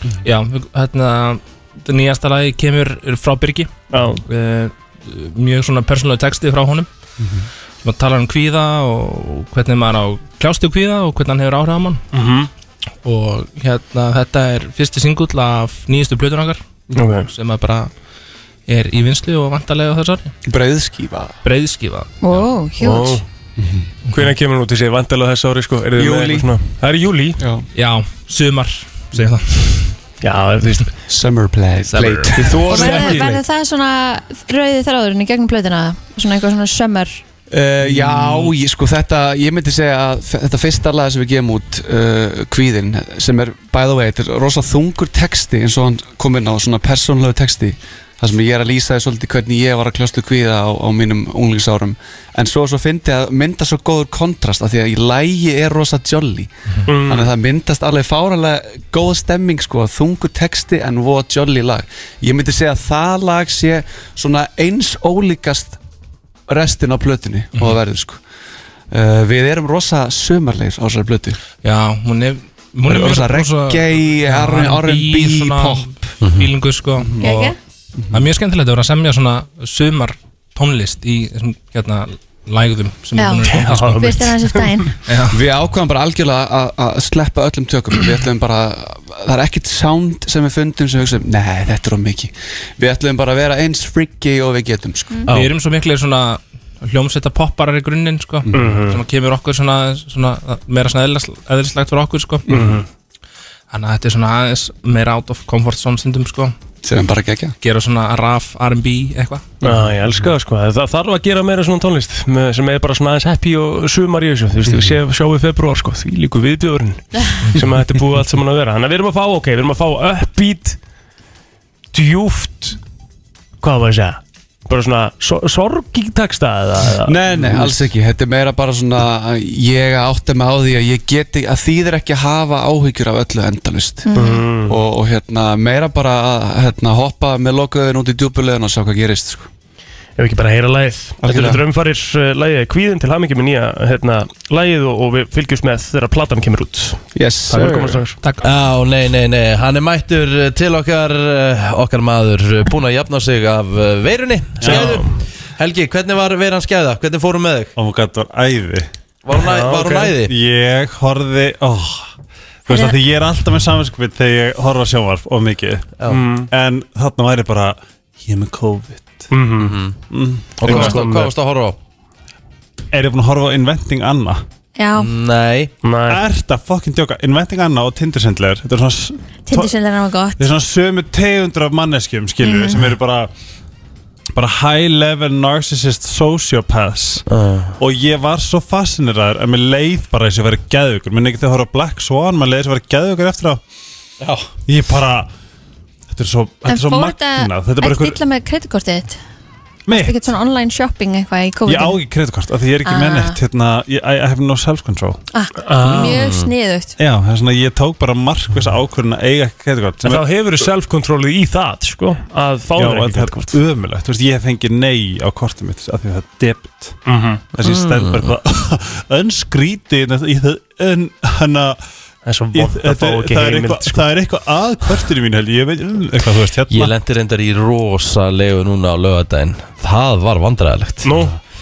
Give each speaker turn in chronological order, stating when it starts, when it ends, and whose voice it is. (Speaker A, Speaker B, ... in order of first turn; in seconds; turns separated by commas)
Speaker A: 0.2-3.7, Speaker B: 3.9-4.2, Speaker A: 4.2-6.9, Speaker A: 7.8-12.0, Speaker B: 12.1-12.5, Speaker A: 13.0-16.6, Speaker B: 16.9-17.3, Speaker A: 17.2-17.9, Speaker A: 18.7-20.3, Speaker C: 20.4-21.3, Speaker A: 21.4-22.5, Speaker D: 22.2-23.2, Speaker B: 22.8-23.2, Speaker C: 23.6-23.9, Speaker B: 24.1-27.4, Speaker C: 26.0-26.5, Speaker C: 27.4-27.6, Speaker A: 27.7-29.9, Speaker B: 30.2-30.9, Speaker C: 31.1-33.1, Speaker A: 31.9-32.3, Speaker B: 32.3-33.4, Speaker D: 32.7-37.2, Speaker C: 37.5-65.8, Speaker A: 37.9-38.5, Speaker B: 56.9-57.3, Speaker C: 66.5-68.2, Speaker C: 68.9-71.4, Speaker A: 71.6-77.5, Speaker C: 72.8-75.9, Speaker E: 76.2-76.5, Speaker D: 77.2-77.5, Speaker A: 78.1-84.3, Speaker D: 83.2-84.9, Speaker B: 83.5-84.8, Speaker A: 85.1-85.4, Speaker C: 85.3-95.3, Speaker A: 95.3-102.7, Speaker B: 98.5-99.0, Speaker B: 102.5-102.8, Speaker C: 102.5-102.8, Speaker A: 103.7-106.5, Speaker C: 106.8-107.5, Speaker A: 107.6-109.5, Speaker B: 109.6-120.8, Speaker B: 121.9-122.8, Speaker B: 123.6-127.7, Speaker C: 127.0-134.1, Speaker D: 134.1-134.4, Speaker B: 134.2-134.8, Speaker C: 134.7-139.5, Speaker B: 140.2-148.2, Speaker C: 141.2-141.6, Speaker C: 147.2-148.0, Speaker E: 148.4-157.7, Speaker F: 154.6-154.9, Speaker B: 154.6-155.2, Speaker F: 157.8-158.9, Speaker E: 159.2-160.3, Speaker B: 159.4-160.1, Speaker F: 160.2-162.1, Speaker F: 162.7-165.9, Speaker D: 162.7-162.9, Speaker E: 166.0-166.2, Speaker B: 166.1-166.5, Speaker F: 166.5-169.3, Speaker B: 169.3-169.8, Speaker E: 169.6-170.0, Speaker F: 170.1-170.9, Speaker E: 170.6-171.8, Speaker B: 170.6-171.3, Speaker F: 172.9-174.4, Speaker D: 174.8-175.1, Speaker E: 174.9-175.7, Speaker B: 175.8-176.2, Speaker F: 176.1-179.7, Speaker D: 179.5-180.4, Speaker F: 180.4-183.3, Speaker D: 182.4-182.9, Speaker F: 184.3-187.2, Speaker E: 187.3-187.8, Speaker F: 187.8-193.6, Speaker F: 194.7-195.3, Speaker F: 196.1-198.2, Speaker D: 196.7-199.2, Speaker F: 199.9-200.3, Speaker D: 199.9-202.0, Speaker F: 201.7-205.2, Speaker D: 202.8-203.4, Speaker D: 205.3-206.9, Speaker B: 205.6-206.2, Speaker E: 206.0-206.5, Speaker F: 207.0-210.2, Speaker B: 210.0-213.6, Speaker F: 212.8-217.0, Speaker B: 217.1-217.4, Speaker F: 217.6-221.8, Speaker E: 217.6-218.3, Speaker B: 222.2-224.1, Speaker F: 222.5-226.9, Speaker E: 226.7-231.1, Speaker B: 231.0-231.3